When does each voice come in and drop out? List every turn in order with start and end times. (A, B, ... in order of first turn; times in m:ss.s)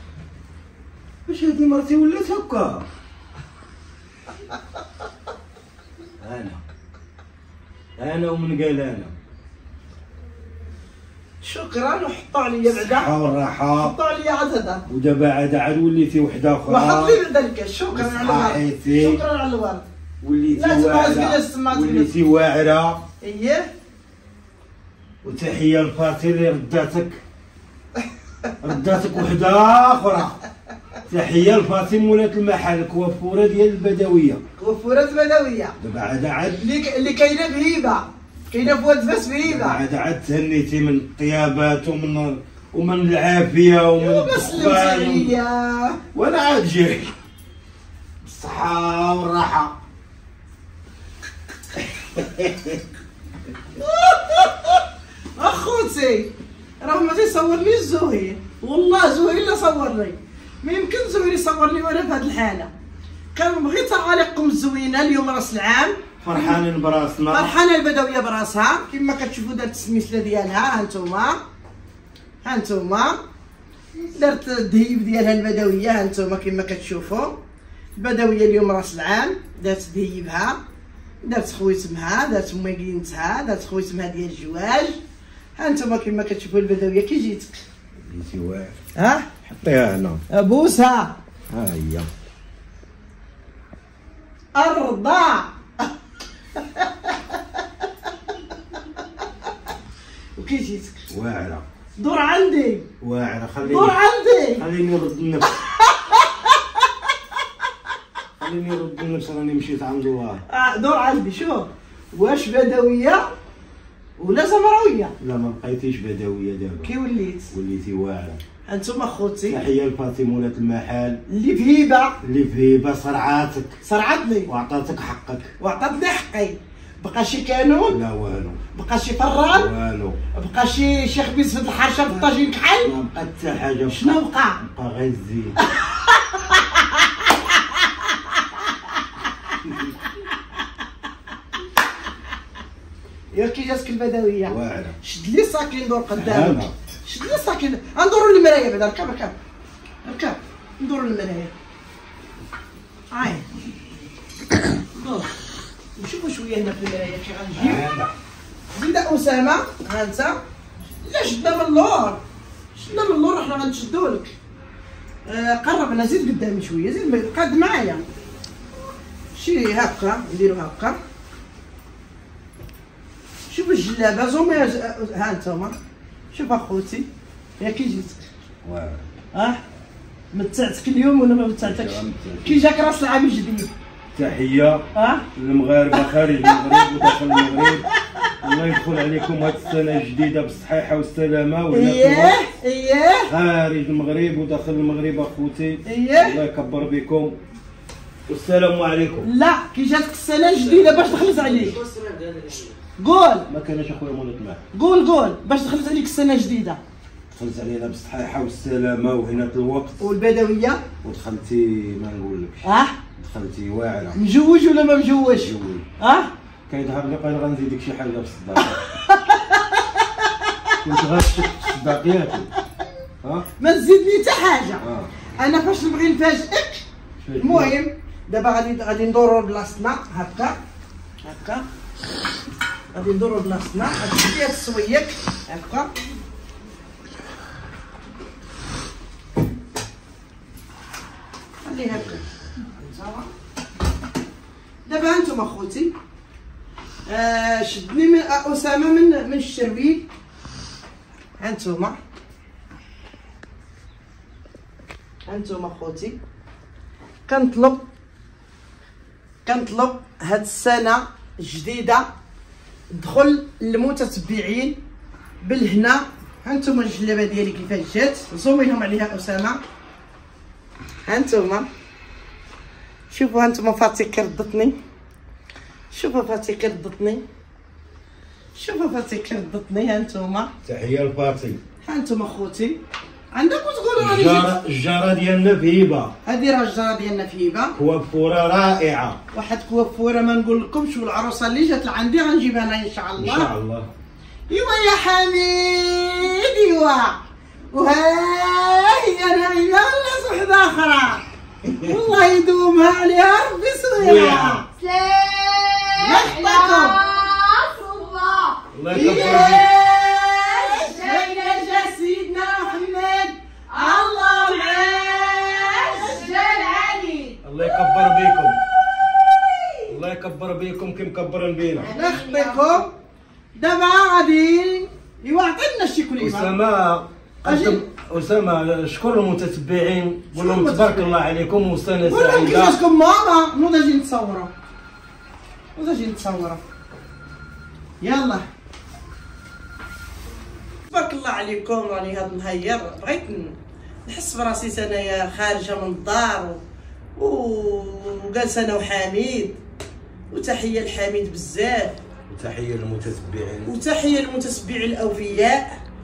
0:01.2-0:02.8 A
0:06.2-0:06.6 A
0:08.0-0:09.1 A
0:11.4-0:13.1 B
0:12.7-0:14.0 A
0:13.8-0:14.8 B
0:14.9-0:17.2 A
0:16.7-0:19.9 B
0:17.9-0:19.2 A
0:20.2-0:23.0 A
0:20.5-0:22.1 B
0:23.2-0:23.7 B
0:25.2-0:27.2 A
0:28.6-0:30.4 A
0:31.1-0:34.4 A
0:34.6-0:35.8 B
0:35.8-0:36.6 A
0:36.6-0:39.8 B
0:39.4-0:45.3 A
0:44.0-0:46.0 B
0:46.1-0:47.1 A
0:48.2-0:49.7 A
0:51.9-0:52.8 A
0:53.8-1:02.7 B
1:03.3-1:06.0 B
1:06.2-1:07.6 A
1:07.3-1:11.4 B
1:12.4-1:13.2 B
1:14.1-1:17.4 B
1:18.0-1:20.6 B
1:21.2-1:25.0 B
1:25.6-1:27.6 B
1:28.1-1:28.8 A
1:29.0-1:29.3 B
1:29.4-1:30.2 A
1:30.3-1:31.2 B
1:31.5-1:32.1 A
1:34.5-1:35.5 B
1:36.6-1:37.6 B
1:40.4-1:41.0 B
1:41.1-1:41.6 A
1:42.0-1:42.9 B
1:43.0-1:44.0 A
1:43.6-1:44.7 B
1:44.6-1:45.6 A
1:45.6-1:47.0 B
1:48.4-1:50.4 A
1:50.5-1:53.3 B
1:54.2-1:55.1 B
1:55.2-1:56.9 A
1:56.8-1:57.5 B
1:57.5-1:58.4 A
1:58.7-1:59.6 B
1:59.5-2:01.2 A
2:01.3-2:02.2 B
2:02.2-2:03.8 A
2:03.8-2:04.5 B
2:04.5-2:05.5 A
2:05.6-2:08.0 B
2:07.9-2:08.6 A
2:08.7-2:09.7 B
2:09.5-2:10.2 A
2:10.3-2:12.9 B
2:12.8-2:15.6 A
2:13.9-2:14.6 B
2:15.6-2:19.2 B
2:23.3-2:29.3 B
2:24.5-2:25.0 A
2:26.2-2:26.7 A
2:30.0-2:31.5 B
2:33.1-2:33.4 B
2:34.9-2:35.3 B
2:36.0-2:37.8 B
2:37.6-2:38.1 A
2:38.7-2:40.4 B
2:41.0-2:42.2 B
2:42.7-2:44.3 B
2:45.2-2:48.1 B
2:49.3-2:51.0 B
2:53.5-2:55.8 B
2:56.3-2:57.1 B
2:57.6-2:58.2 B
2:58.6-2:59.0 A
2:59.3-2:59.6 B
3:00.3-3:03.7 B
3:01.6-3:02.6 A
3:04.2-3:07.9 A
3:04.9-3:05.2 B
3:05.9-3:08.3 B
3:08.4-3:12.4 A
3:11.7-3:13.3 B
3:13.3-3:17.4 A
3:15.8-3:16.4 B
3:18.3-3:19.3 A
3:19.2-3:21.8 B
3:20.6-3:22.8 A
3:23.0-3:23.5 B
3:23.5-3:24.6 A
3:24.7-3:26.8 B
3:27.3-3:30.0 A
3:30.0-3:30.8 B
3:31.0-3:32.6 A
3:32.6-3:33.0 B
3:33.2-3:34.2 A
3:34.2-3:36.3 B
3:35.3-3:35.9 A
3:36.7-3:38.8 A
3:38.6-3:40.8 B
3:40.8-3:42.5 A
3:42.6-3:42.8 B
3:43.6-3:44.8 B
3:44.8-3:45.1 A
3:45.4-3:46.8 B
3:47.2-3:47.8 A
3:47.4-3:50.6 B
3:51.2-3:51.6 B
3:52.9-3:55.9 B
4:01.6-4:03.3 B
4:04.8-4:05.9 B
4:07.1-4:10.1 B
4:11.4-4:12.0 B
4:15.3-4:16.2 B
4:17.3-4:17.8 B
4:19.4-4:22.1 B
4:22.9-4:24.8 B
4:25.4-4:29.6 B
4:31.0-4:31.7 B
4:33.1-4:34.8 B
4:35.9-4:37.2 B
4:38.6-4:40.5 B
4:40.6-4:41.6 A
4:41.9-4:42.8 B
4:43.3-4:44.5 B
4:44.0-4:46.1 A
4:46.2-4:47.8 B
4:47.8-4:49.2 A
4:49.3-4:53.5 B
4:53.2-4:53.9 A
4:54.5-4:57.2 B
4:57.7-5:04.6 B
5:01.6-5:01.9 A
5:04.0-5:04.6 A
5:04.8-5:11.8 C
5:06.0-5:07.0 B
5:08.7-5:09.7 A
5:08.9-5:17.4 B
5:13.9-5:14.9 C
5:15.5-5:16.4 C
5:17.4-5:18.6 A
5:19.9-5:21.9 A
5:21.9-5:22.6 C
5:21.9-5:22.9 B
5:23.6-5:26.6 B
5:26.2-5:32.8 A
5:27.4-5:27.9 B
5:30.3-5:31.1 B
5:32.0-5:34.5 B
5:35.8-5:36.6 B
5:38.0-5:38.4 B
5:40.9-5:46.6 B
5:47.2-5:49.6 B
5:50.3-5:52.0 B
5:52.3-5:53.8 A
5:53.6-5:55.8 B